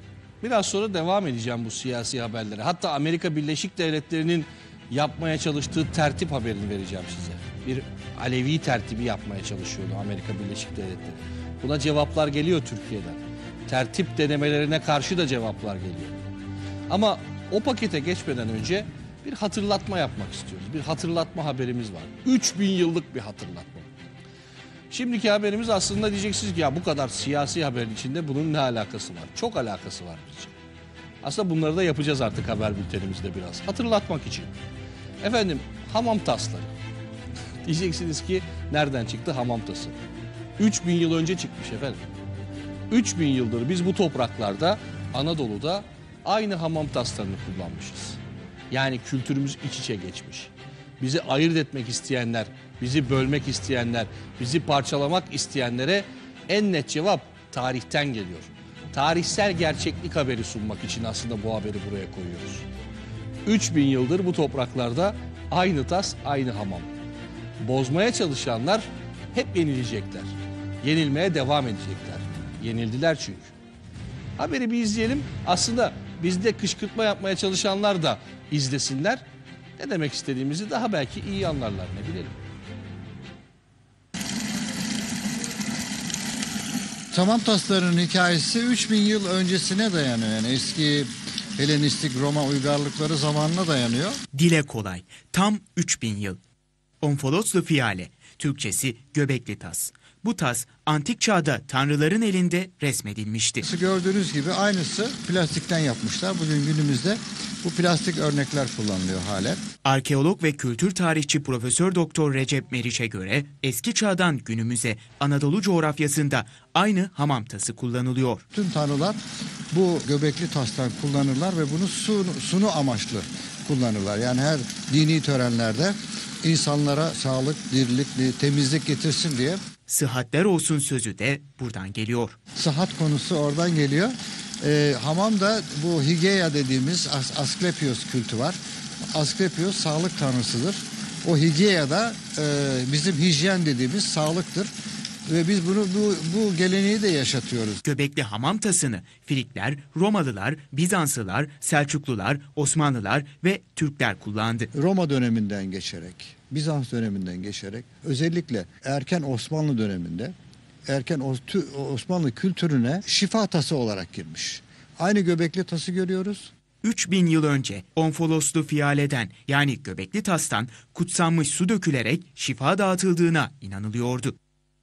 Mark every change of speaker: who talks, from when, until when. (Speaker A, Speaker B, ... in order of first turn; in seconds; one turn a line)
Speaker A: 0.4-16.2
Speaker A: 16.9-23.9
Speaker A: 24.9-30.5
Speaker A: 31.2-34.5
Speaker A: 35.2-36.7
Speaker A: 37.6-40.0
Speaker A: 40.6-42.0
Speaker A: 42.9-48.2
Speaker A: 48.7-62.7
Speaker A: 63.5-66.9
Speaker A: 67.6-73.5
Speaker A: 74.4-79.2
Speaker A: 79.8-82.3
Speaker B: 87.1-94.2
Speaker C: 94.3-96.4
Speaker C: 97.0-103.6
Speaker B: 103.6-109.6
Speaker C: 109.8-118.4
Speaker B: 118.5-119.2
Speaker B: 119.7-129.6
Speaker C: 129.9-132.4
Speaker B: 132.6-138.6
Speaker B: 139.1-144.7
Speaker B: 145.3-147.8
Speaker C: 147.8-154.7
Speaker B: 154.7-160.3
Speaker B: 160.9-166.5
Speaker C: 166.8-174.4